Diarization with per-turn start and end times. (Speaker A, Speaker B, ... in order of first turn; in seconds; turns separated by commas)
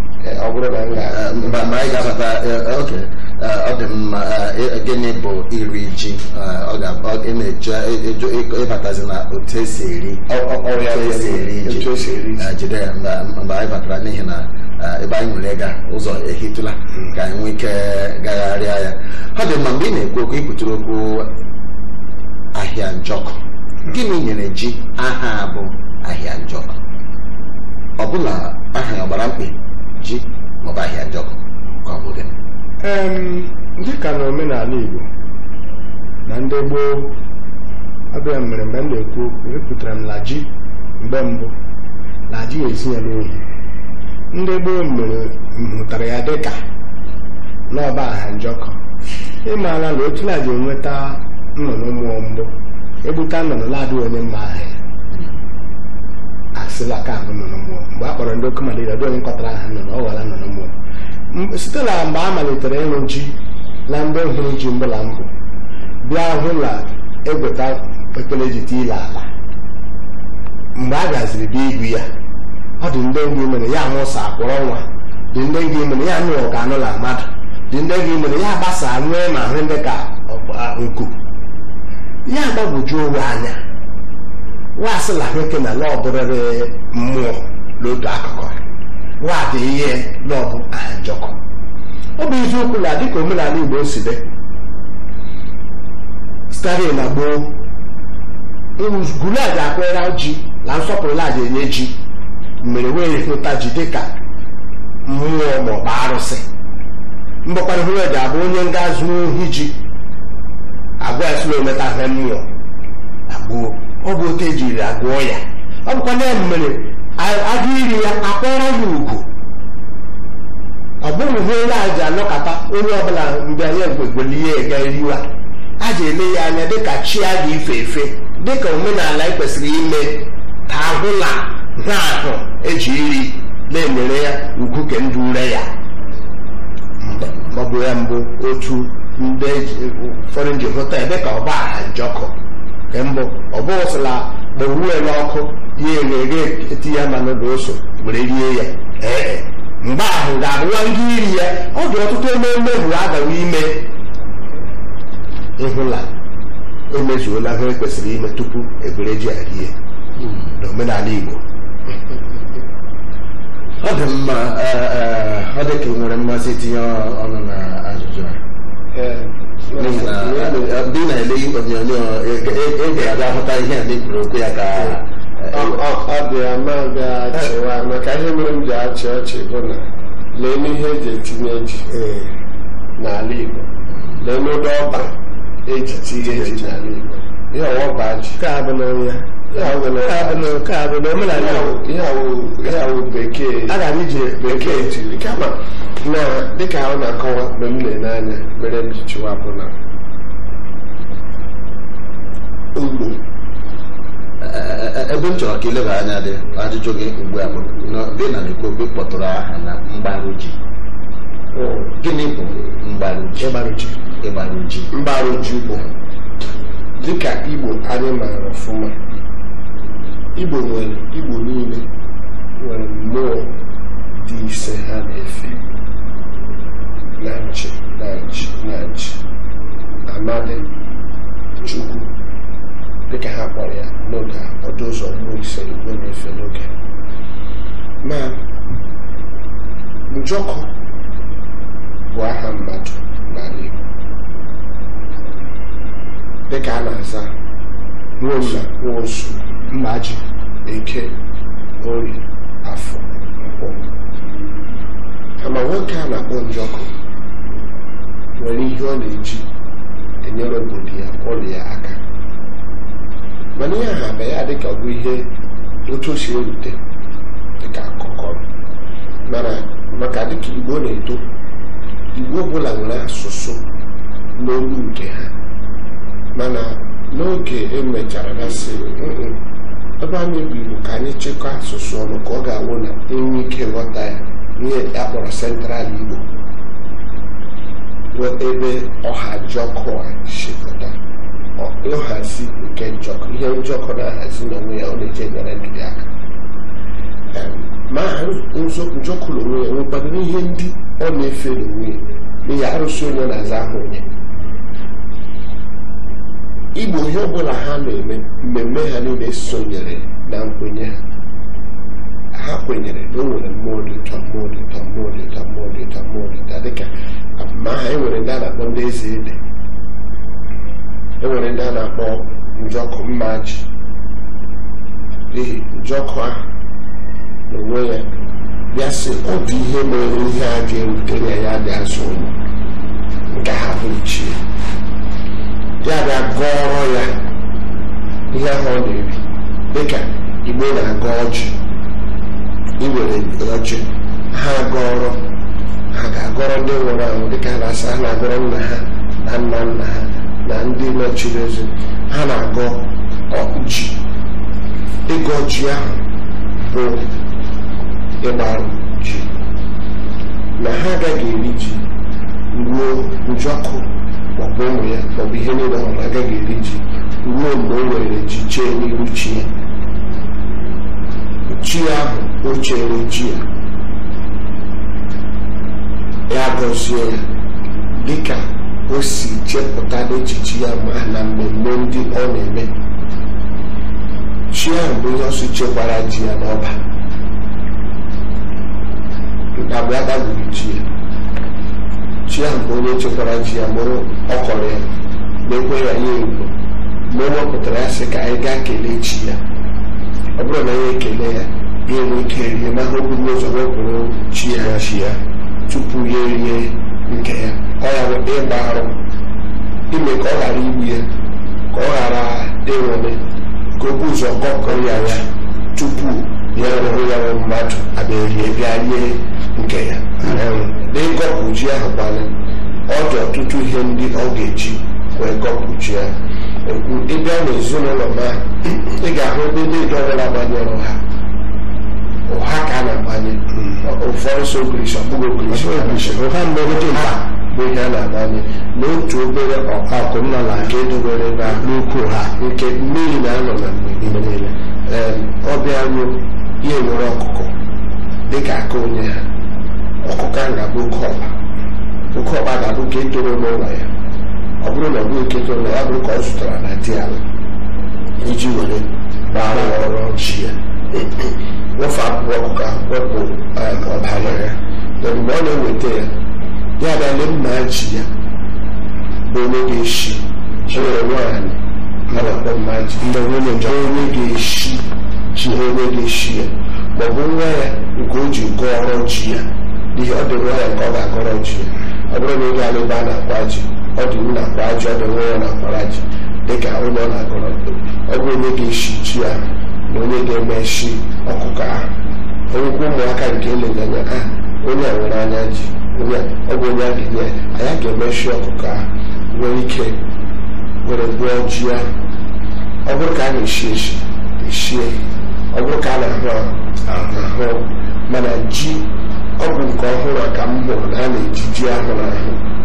Speaker A: 0.2-2.0, Speaker B: 1.1-10.2, Speaker A: 10.3-12.5, Speaker B: 10.8-21.3, Speaker B: 22.5-26.8, Speaker B: 28.0-32.3, Speaker C: 32.8-35.1, Speaker C: 36.3-37.1, Speaker C: 38.1-40.5, Speaker C: 41.0-41.5, Speaker C: 42.3-43.5, Speaker C: 44.3-46.6, Speaker C: 47.7-48.8, Speaker C: 49.4-52.5, Speaker C: 53.0-54.8, Speaker C: 56.5-60.7, Speaker C: 61.3-63.4, Speaker C: 63.9-65.3, Speaker C: 66.0-69.3, Speaker C: 70.8-72.1, Speaker C: 72.8-81.2, Speaker C: 82.3-83.6, Speaker C: 84.8-88.6, Speaker C: 89.2-91.4, Speaker C: 92.2-94.2, Speaker C: 96.5-97.6, Speaker C: 98.8-102.0, Speaker C: 102.6-104.1, Speaker C: 105.1-106.5, Speaker C: 107.5-109.8, Speaker C: 111.0-112.5, Speaker C: 113.3-119.3, Speaker C: 121.0-125.3, Speaker C: 125.8-135.7, Speaker C: 137.0-142.3, Speaker C: 142.9-153.9, Speaker C: 155.6-156.1, Speaker C: 156.9-159.7, Speaker C: 160.6-161.4, Speaker B: 163.8-168.4, Speaker A: 168.9-170.8, Speaker B: 169.8-175.8, Speaker A: 175.5-181.9, Speaker C: 181.9-182.3, Speaker A: 183.0-183.7, Speaker A: 184.2-185.1, Speaker A: 185.7-188.4, Speaker C: 186.2-186.6, Speaker C: 188.4-191.7, Speaker A: 189.5-190.6, Speaker A: 191.3-193.8, Speaker C: 193.7-194.9, Speaker A: 194.4-199.7, Speaker A: 202.8-203.2, Speaker B: 204.4-210.6, Speaker A: 211.5-211.9, Speaker B: 212.0-213.6, Speaker C: 213.4-214.0, Speaker B: 214.2-214.9, Speaker A: 214.9-215.8, Speaker A: 217.0-218.9, Speaker A: 220.4-221.8, Speaker A: 222.6-223.5, Speaker A: 224.2-225.6, Speaker A: 227.2-229.2, Speaker A: 230.1-230.7, Speaker A: 231.6-232.1, Speaker A: 233.1-236.7, Speaker A: 238.0-238.4, Speaker A: 240.1-240.7, Speaker A: 242.1-243.8, Speaker A: 246.5-247.3, Speaker C: 248.2-248.6, Speaker A: 248.4-249.4, Speaker C: 249.7-250.2, Speaker A: 250.7-251.1, Speaker A: 251.8-253.8, Speaker A: 255.4-256.9, Speaker A: 258.4-259.5, Speaker A: 260.2-262.0, Speaker A: 263.6-265.3, Speaker A: 265.9-266.8, Speaker A: 267.6-268.4, Speaker A: 269.3-271.2, Speaker A: 272.1-273.6, Speaker A: 274.4-275.3, Speaker A: 276.4-279.4, Speaker A: 280.0-286.2, Speaker A: 288.1-291.0, Speaker A: 291.6-296.1, Speaker A: 297.3-304.1, Speaker A: 306.8-311.0, Speaker A: 312.3-319.4, Speaker A: 321.2-323.6, Speaker A: 325.3-326.4, Speaker A: 327.5-328.1, Speaker A: 328.7-332.4, Speaker A: 333.3-334.4, Speaker A: 335.8-337.1, Speaker A: 338.3-339.2, Speaker A: 339.7-341.6, Speaker A: 342.8-345.2, Speaker A: 345.9-354.0, Speaker A: 355.1-356.0, Speaker A: 356.6-357.1, Speaker A: 358.2-359.3, Speaker A: 360.6-361.8, Speaker A: 362.5-369.5, Speaker A: 371.5-373.4, Speaker A: 376.3-377.2, Speaker A: 377.9-382.7, Speaker A: 384.5-386.8, Speaker A: 389.6-390.9, Speaker A: 392.3-394.9, Speaker A: 395.4-396.5, Speaker A: 397.1-399.4, Speaker A: 400.4-405.0, Speaker C: 404.6-405.2, Speaker A: 405.7-409.0, Speaker A: 409.9-411.1, Speaker A: 411.7-413.2, Speaker A: 413.8-422.3, Speaker C: 414.6-415.2, Speaker C: 416.6-417.0, Speaker C: 418.0-418.6, Speaker C: 420.2-420.8, Speaker A: 422.9-426.1, Speaker A: 426.6-431.0, Speaker A: 432.3-436.3, Speaker C: 435.5-437.2, Speaker A: 436.8-441.6, Speaker C: 439.9-440.8, Speaker C: 441.4-442.3, Speaker A: 442.4-444.3, Speaker C: 444.0-444.5, Speaker A: 444.9-447.5, Speaker A: 448.3-449.2, Speaker A: 450.0-451.3, Speaker A: 452.1-453.9, Speaker A: 454.6-457.2, Speaker A: 458.2-460.0, Speaker C: 459.3-460.6, Speaker A: 460.9-466.1, Speaker C: 464.0-464.6, Speaker A: 466.8-468.1, Speaker A: 469.2-474.9, Speaker C: 470.7-470.9, Speaker C: 472.1-472.4, Speaker C: 473.0-474.1, Speaker C: 475.3-475.6, Speaker A: 475.5-491.9, Speaker A: 492.5-500.0, Speaker A: 500.8-501.9, Speaker A: 502.9-505.0, Speaker A: 505.5-512.4, Speaker C: 506.9-507.3